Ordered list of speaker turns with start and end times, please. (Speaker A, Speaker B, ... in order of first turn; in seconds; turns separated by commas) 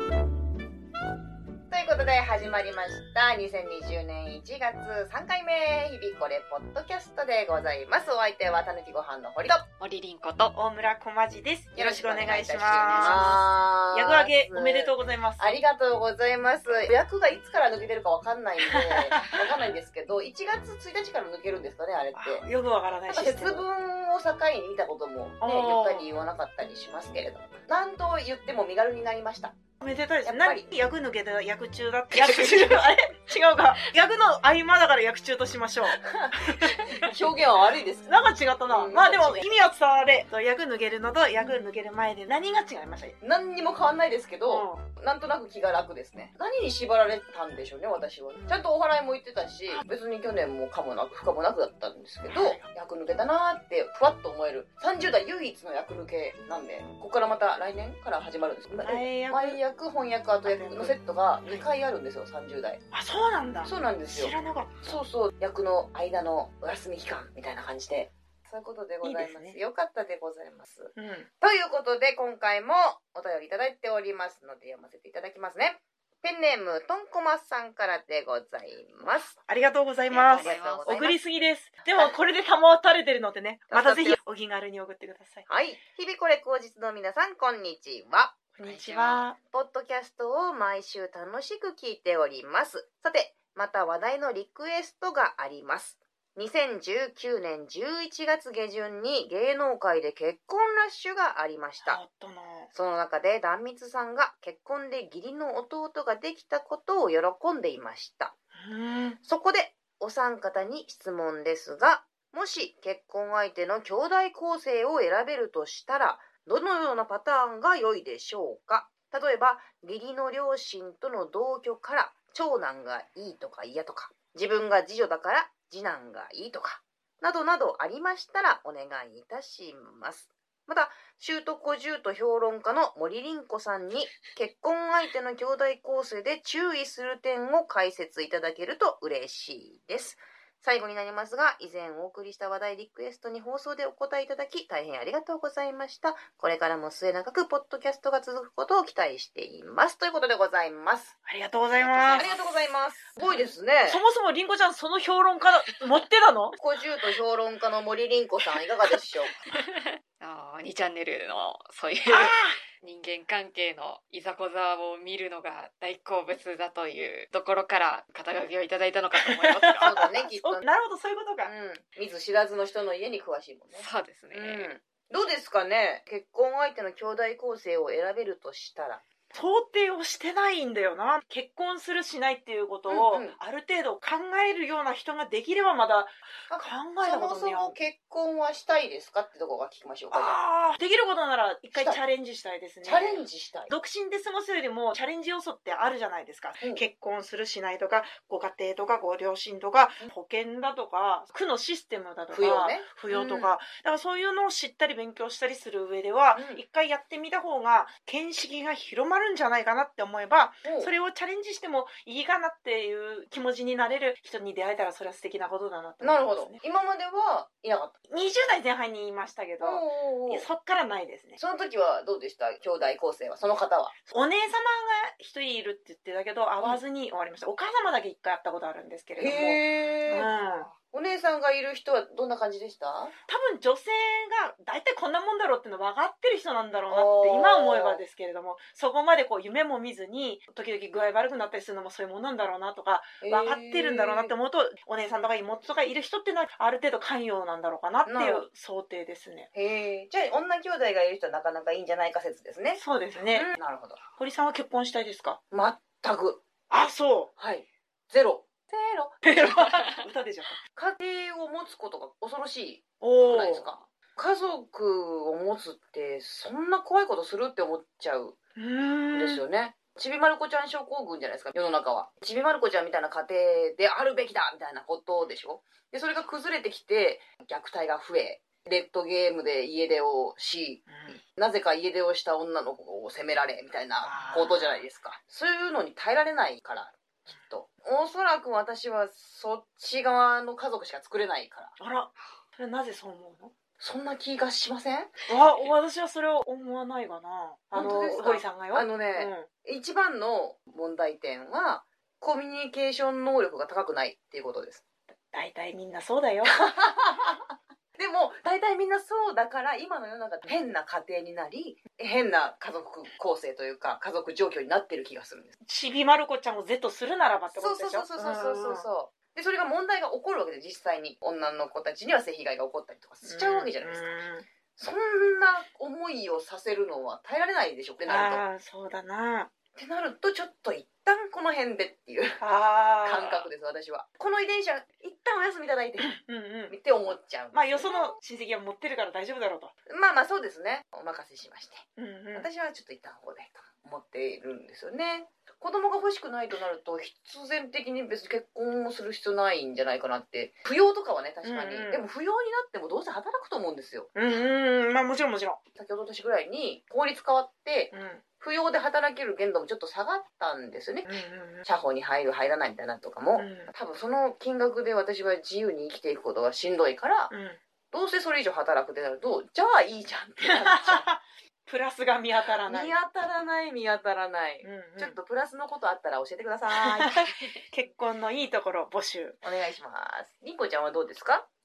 Speaker A: 1.7-9.6, Speaker B: 9.8-10.5, Speaker C: 10.5-15.6, Speaker A: 11.7-22.4, Speaker B: 12.1-13.4, Speaker C: 18.7-19.4, Speaker C: 22.1-23.6, Speaker A: 23.1-29.6, Speaker C: 25.4-26.1, Speaker C: 29.8-37.1, Speaker A: 30.2-30.7, Speaker B: 32.1-32.9, Speaker A: 36.0-38.1, Speaker C: 37.7-43.1, Speaker A: 38.7-39.5, Speaker A: 43.2-62.8, Speaker C: 44.5-44.8, Speaker C: 52.2-52.7, Speaker C: 58.8-59.6, Speaker C: 60.4-61.6, Speaker C: 62.9-65.0, Speaker A: 63.6-79.4, Speaker C: 69.0-69.6, Speaker C: 71.0-71.3, Speaker C: 79.5-85.5, Speaker A: 80.1-81.2, Speaker B: 80.1-80.9, Speaker A: 83.7-84.2, Speaker A: 85.5-102.0, Speaker C: 88.5-89.3, Speaker C: 101.8-102.7, Speaker A: 102.7-108.3, Speaker C: 108.5-109.2, Speaker A: 109.2-151.1, Speaker C: 151.2-152.3, Speaker B: 151.7-152.6, Speaker A: 152.1-154.0, Speaker C: 153.9-156.6, Speaker A: 156.6-159.3, Speaker B: 159.5-170.0, Speaker C: 162.1-162.6, Speaker C: 169.2-171.5, Speaker A: 169.8-170.6, Speaker A: 171.4-179.0, Speaker B: 173.7-174.7, Speaker C: 179.3-187.8, Speaker A: 182.9-183.3, Speaker A: 186.5-190.4, Speaker C: 190.1-216.6, Speaker A: 192.8-193.7, Speaker A: 202.3-203.5, Speaker A: 206.3-206.6, Speaker A: 210.6-210.9, Speaker A: 216.0-217.9, Speaker C: 218.1-221.4, Speaker A: 219.6-220.5, Speaker A: 221.4-223.9, Speaker C: 224.1-230.7, Speaker A: 229.2-230.3, Speaker A: 230.9-233.1, Speaker C: 233.3-249.5, Speaker A: 236.9-238.0, Speaker A: 243.2-244.3, Speaker A: 248.0-248.4, Speaker A: 249.5-252.8, Speaker C: 252.8-253.5, Speaker A: 253.3-254.0, Speaker C: 254.2-255.4, Speaker A: 255.5-256.4, Speaker C: 256.7-257.3, Speaker A: 257.4-259.7, Speaker C: 259.2-260.6, Speaker A: 260.7-268.4, Speaker C: 263.0-263.7, Speaker C: 268.6-269.4, Speaker A: 269.1-291.7, Speaker C: 280.9-281.2, Speaker C: 284.0-284.8, Speaker C: 291.8-293.5, Speaker A: 293.8-295.1, Speaker C: 295.3-299.5, Speaker A: 297.7-304.8, Speaker C: 305.3-306.6, Speaker A: 306.4-307.4, Speaker A: 308.0-315.5, Speaker C: 315.6-318.9, Speaker A: 317.5-324.2, Speaker C: 323.2-324.4, Speaker A: 324.8-328.4, Speaker C: 328.1-329.5, Speaker A: 329.7-332.4, Speaker C: 332.4-333.3, Speaker B: 332.8-333.4, Speaker A: 333.0-338.1, Speaker C: 336.0-336.8, Speaker C: 337.5-339.7, Speaker A: 339.9-354.1, Speaker C: 342.0-342.5, Speaker C: 351.4-352.0, Speaker C: 354.1-355.6, Speaker A: 355.7-361.1, Speaker C: 357.9-358.2, Speaker C: 361.1-361.6, Speaker A: 361.6-367.3, Speaker C: 363.4-363.7, Speaker C: 367.3-367.6, Speaker A: 367.9-371.1, Speaker C: 370.5-372.9, Speaker A: 372.7-377.2, Speaker C: 374.6-375.2, Speaker C: 376.7-379.4, Speaker A: 379.4-381.5